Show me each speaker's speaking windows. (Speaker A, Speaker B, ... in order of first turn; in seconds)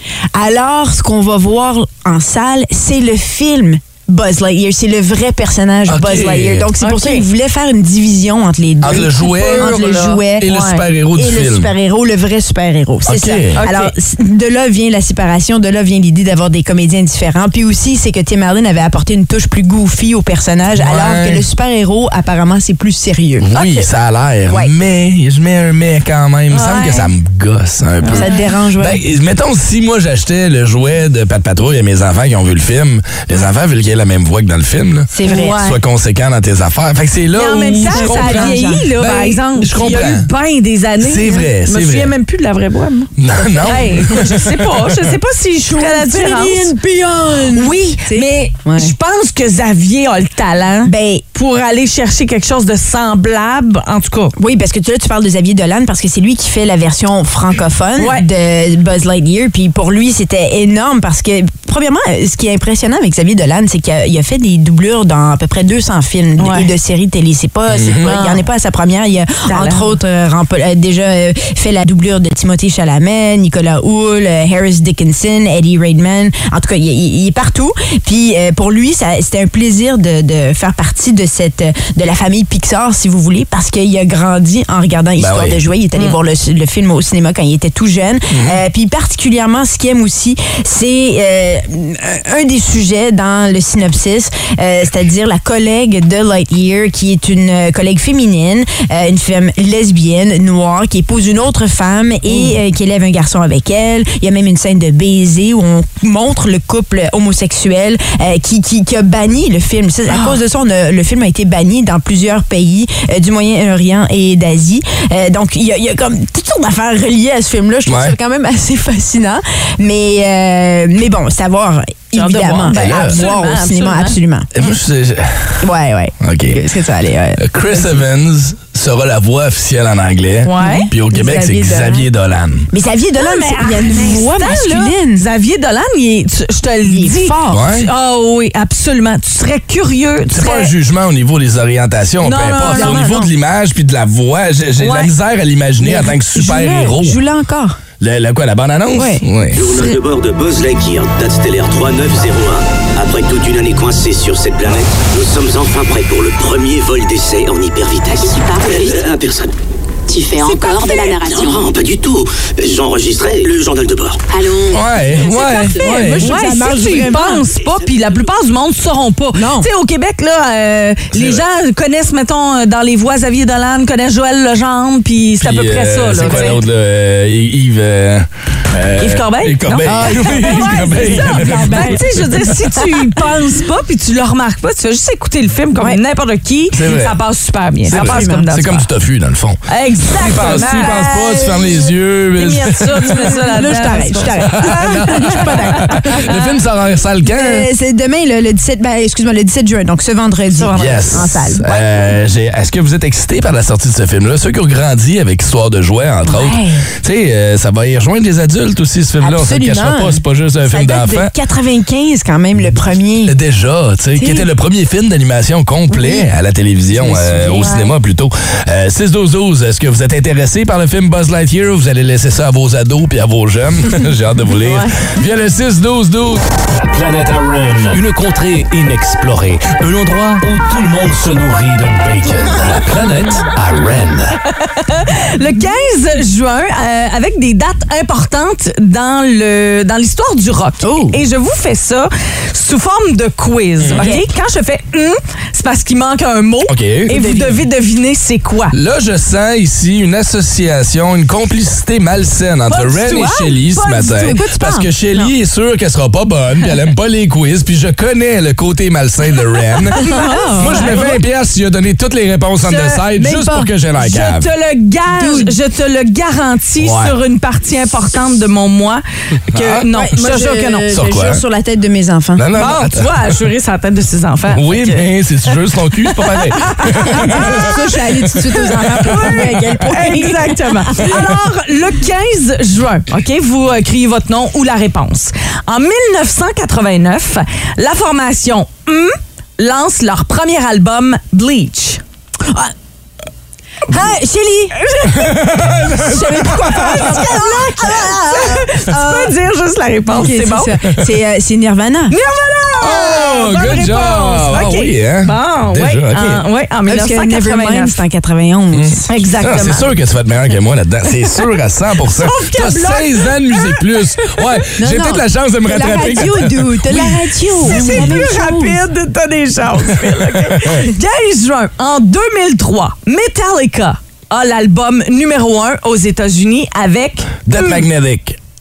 Speaker A: 0.3-10.6, 11.1-23.9, 24.5-24.7, 28.0-29.0, 35.1-35.6, 37.9-39.4, 45.6-48.9, 50.8-51.2, 54.4-124.5, 125.6-127.4, 130.6-132.1, 132.7-135.2, 136.9-137.6, 142.7-143.3, 145.8-147.8, 148.9-149.8, 160.5-161.1, 165.3-167.4, 169.3-169.7, 179.8-183.4, 187.9-188.5, 190.3-191.8, 193.5-196.3, 197.2-201.7, 206.2-206.8, 209.2-213.3, 214.2-214.5, 215.9-216.3, 216.9-217.8, 240.8-241.2, 243.9-244.2, 247.1-247.6, 254.1-255.3, 260.0-261.0, 263.2-263.7, 265.1-265.5, 269.9-272.4, 277.1-281.1, 292.4-292.7, 293.9-294.8, 296.0-299.3, 300.1-302.1, 306.9-309.1, 314.8-318.8
Speaker B: 5.9-6.7, 8.8-11.7, 13.1-13.6, 20.8-21.4, 23.4-39.1, 39.6-40.3, 41.0-42.1, 43.2-45.1, 67.7-68.1, 85.2-85.6, 88.3-88.6, 117.9-118.1, 122.8-123.1, 124.5-125.6, 126.2-126.6, 127.4-132.7, 137.5-137.9, 140.3-147.2, 148.0-149.6, 164.7-166.4, 171.1-171.4, 175.4-182.3, 186.7-187.2, 187.8-193.4, 194.5-197.7, 200.7-211.3, 213.3-226.4, 243.8-244.2, 246.7-247.1, 248.7-264.5, 266.8-267.1, 269.5-269.9, 270.9-271.4, 272.4-273.3, 274.5-278.8, 295.1-296.9, 302.8-306.4, 308.7-317.0, 317.7-318.2, 320.3-320.8, 327.4-328.4
Speaker C: 6.8-7.2, 9.1-10.8, 13.6-13.9, 26.5-27.1, 28.1-28.4, 35.2-35.8, 37.3-43.1, 43.6-46.7, 47.5-54.3, 58.0-58.3, 66.4-66.7, 68.0-68.4, 69.5-69.9, 102.3-102.5, 110.1-110.4, 122.1-124.2, 130.4-130.9, 133.2-140.7, 142.2-143.0, 144.8-145.1, 165.4-176.6, 179.0-188.9, 189.7-196.5, 200.5-202.1, 234.6-248.8, 252.7-254.2, 259.9-261.2, 262.6-270.9, 272.6-275.1, 276.1-277.7, 278.6-292.0, 294.8-295.3, 296.1-300.8, 302.1-308.0, 309.1-309.9, 312.1-314.6, 317.6-327.9
Speaker D: 149.6-159.5, 160.5-164.2, 167.6-168.2
Speaker E: 158.1-159.1, 160.1-161.7, 164.3-164.8
Speaker F: 226.8-234.4